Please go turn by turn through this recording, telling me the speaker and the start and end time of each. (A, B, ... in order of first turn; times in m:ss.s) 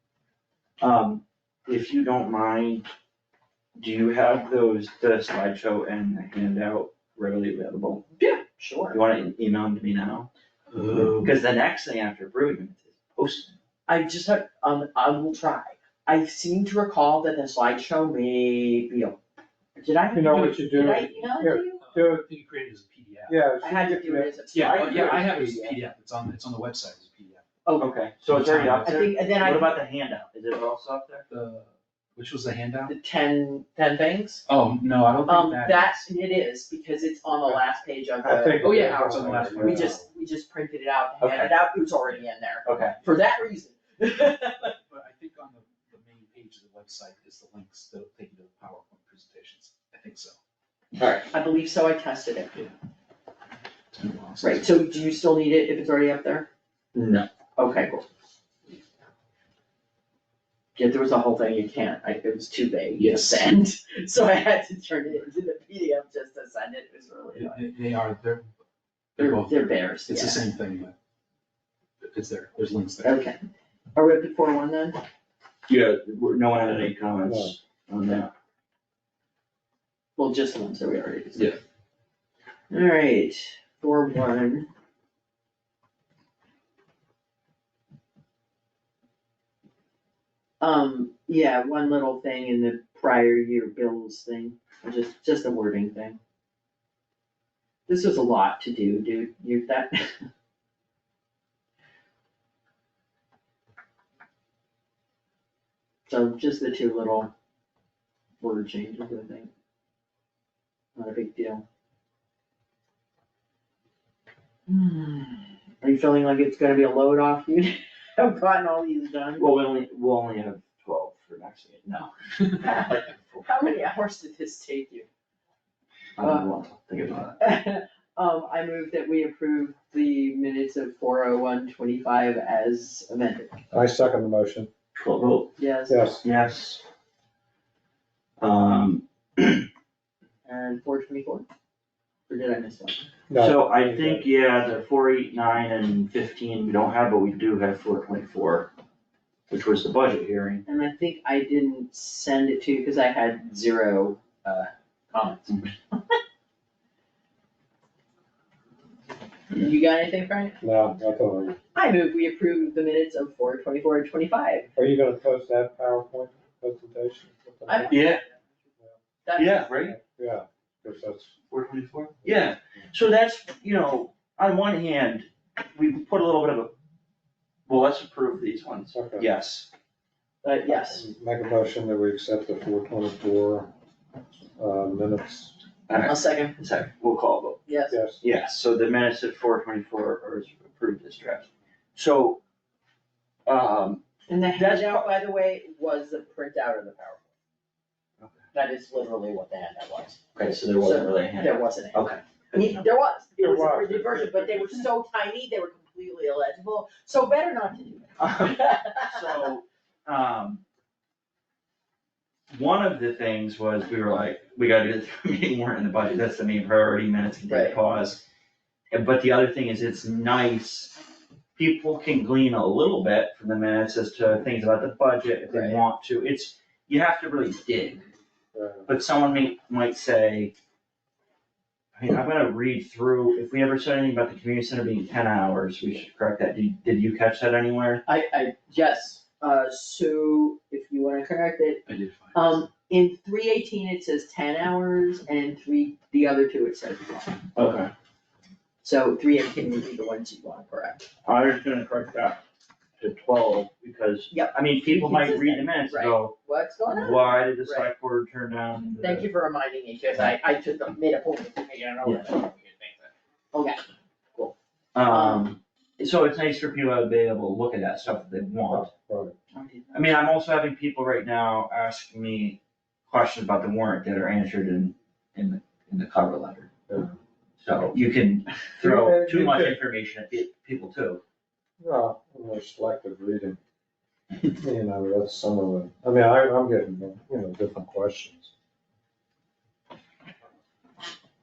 0:00.8-0:02.9 A
0:03.8-0:08.1 A
0:08.2-0:09.0 B
0:08.9-0:10.3 A
0:10.7-0:11.3 C
0:11.2-0:13.5 A
0:13.9-0:19.2 B
0:19.8-0:21.8 B
0:20.1-0:22.3 D
0:21.8-0:23.4 C
0:23.3-0:24.4 D
0:23.6-0:25.8 B
0:24.5-0:27.4 C
0:24.6-0:25.4 A
0:27.6-0:27.9 B
0:27.8-0:31.2 A
0:28.3-0:29.0 C
0:28.8-0:29.8 B
0:31.3-0:32.9 C
0:32.9-0:34.4 B
0:34.4-0:36.0 C
0:35.2-0:44.8 B
0:38.2-0:40.0 D
0:38.6-0:40.0 C
0:41.2-0:41.5 A
0:42.6-0:43.0 A
0:44.9-0:50.4 C
0:51.0-0:52.5 B
0:53.9-0:55.2 C
0:54.4-0:56.5 B
0:56.9-0:57.2 A
0:57.6-0:58.0 B
1:00.7-1:07.7 B
1:03.0-1:03.5 C
1:07.3-1:08.5 C
1:09.2-1:10.9 C
1:09.2-1:10.4 B
1:12.0-1:13.2 C
1:13.0-1:13.4 B
1:13.9-1:15.0 B
1:15.7-1:18.3 A
1:17.2-1:17.5 D
1:20.2-1:21.6 B
1:22.7-1:24.7 B
1:30.6-1:36.2 B
1:37.9-1:40.3 B
1:46.1-1:47.3 B
1:48.4-1:49.5 B
1:51.0-1:51.6 B
1:54.7-1:59.6 B
1:59.4-2:03.8 A
2:02.6-2:02.9 B
2:03.4-2:05.1 B
2:06.2-2:07.4 A
2:06.2-2:06.5 B
2:07.4-2:13.6 B
2:13.7-2:14.7 D
2:14.9-2:15.5 A
2:15.6-2:16.1 B
2:15.9-2:16.2 D
2:16.2-2:16.8 A
2:18.4-2:19.7 A
2:20.4-2:21.5 B
2:22.3-2:23.1 B
2:23.3-2:24.2 D
2:23.4-2:28.7 A
2:29.5-2:30.6 A
2:30.6-2:36.1 B
2:39.5-2:40.6 B
2:40.6-2:41.6 D
2:41.7-2:44.7 B
2:44.8-2:48.2 D
2:47.6-2:48.1 B
2:47.9-2:48.2 A
2:49.2-2:49.8 B
2:49.4-2:50.0 A
2:49.8-2:51.3 D
2:51.5-2:56.7 A
2:52.2-2:52.9 D
2:57.7-2:59.7 A
2:58.9-2:59.3 D
3:00.4-3:01.0 B
3:00.7-3:03.7 D
3:04.6-3:05.6 D
3:05.9-3:07.6 A
3:06.0-3:06.6 B
3:07.7-3:08.0 B
3:07.9-3:08.2 D
3:08.2-3:12.4 A
3:13.4-3:15.1 A
3:14.3-3:17.3 B
3:18.5-3:20.2 B
3:20.3-3:22.8 A
3:20.8-3:29.5 B
3:23.4-3:24.6 D
3:28.2-3:30.6 A
3:32.5-3:38.2 A
3:37.5-3:37.8 B
3:38.9-3:40.9 A
3:41.6-3:48.0 A
3:45.5-3:45.8 B
3:48.5-3:48.9 D
3:48.9-3:50.5 A
3:52.0-3:58.0 A
3:58.0-4:01.8 B
4:01.8-4:02.6 C
4:02.3-4:07.4 B
4:07.5-4:07.9 A
4:08.8-4:11.1 B
4:11.2-4:12.4 A
4:13.0-4:16.3 A
4:14.3-4:17.9 B
4:16.9-4:19.2 A
4:19.0-4:23.8 B
4:24.9-4:28.9 A
4:25.1-4:25.5 B
4:28.7-4:29.3 D
4:29.5-4:29.9 B
4:29.9-4:36.7 A
4:36.9-4:37.2 D
4:37.6-4:41.2 A
4:38.8-4:39.8 D
4:41.8-4:43.6 D
4:44.5-4:48.5 D